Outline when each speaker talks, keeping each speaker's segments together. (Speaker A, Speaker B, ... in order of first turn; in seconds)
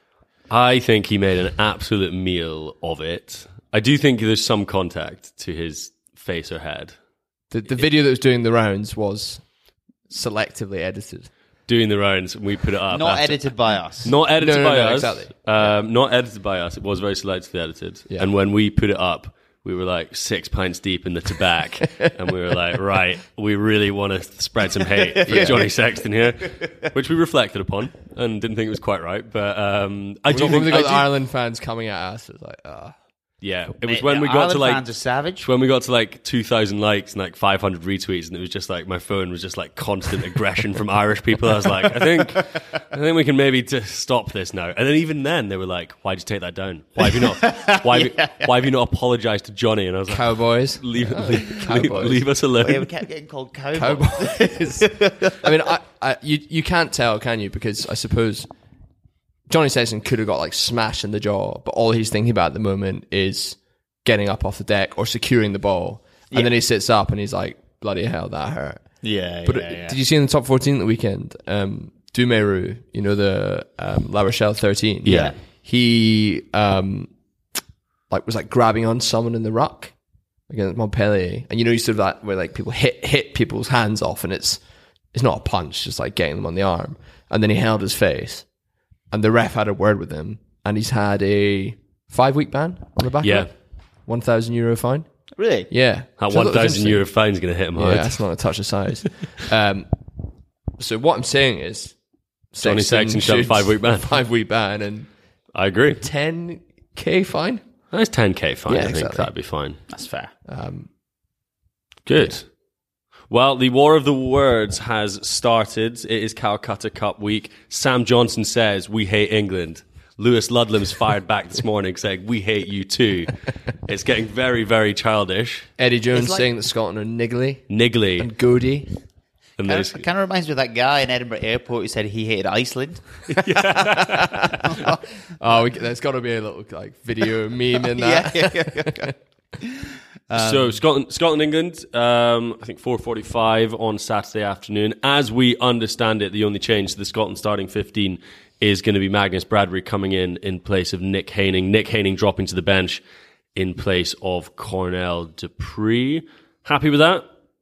Speaker A: 0.5-6.9, 11.7-13.5, 14.0-31.1, 33.4-34.8, 35.4-52.9, 75.0-75.3, 93.2-93.5, 96.2-98.2, 102.6-104.1, 105.5-106.0, 107.9-109.8, 112.0-112.5, 113.3-125.7, 127.7-128.3, 129.6-130.0, 133.3-134.5, 140.3-153.0, 153.5-157.2
Speaker B: 7.5-9.4, 10.1-11.3, 14.3-15.7, 25.3-25.7, 30.3-33.0, 50.1-52.2, 53.7-58.5, 59.5-68.8, 69.4-77.1, 78.1-79.9, 80.5-84.6, 85.1-88.5, 89.1-93.5, 94.0-95.1, 95.7-97.0, 97.8-99.9, 100.8-102.0, 102.5-105.1, 106.0-107.6, 108.7-109.3, 110.5-110.9, 125.8-128.9, 134.0-134.3, 135.4-139.1
Speaker C: 12.9-14.1, 25.1-25.6, 33.9-35.5, 47.0-48.4, 52.6-55.4, 69.0-70.0, 75.1-75.3, 95.4-95.7, 109.9-110.3, 126.1-126.5, 129.7-133.2, 134.6-135.0, 137.9-139.6, 140.3-140.7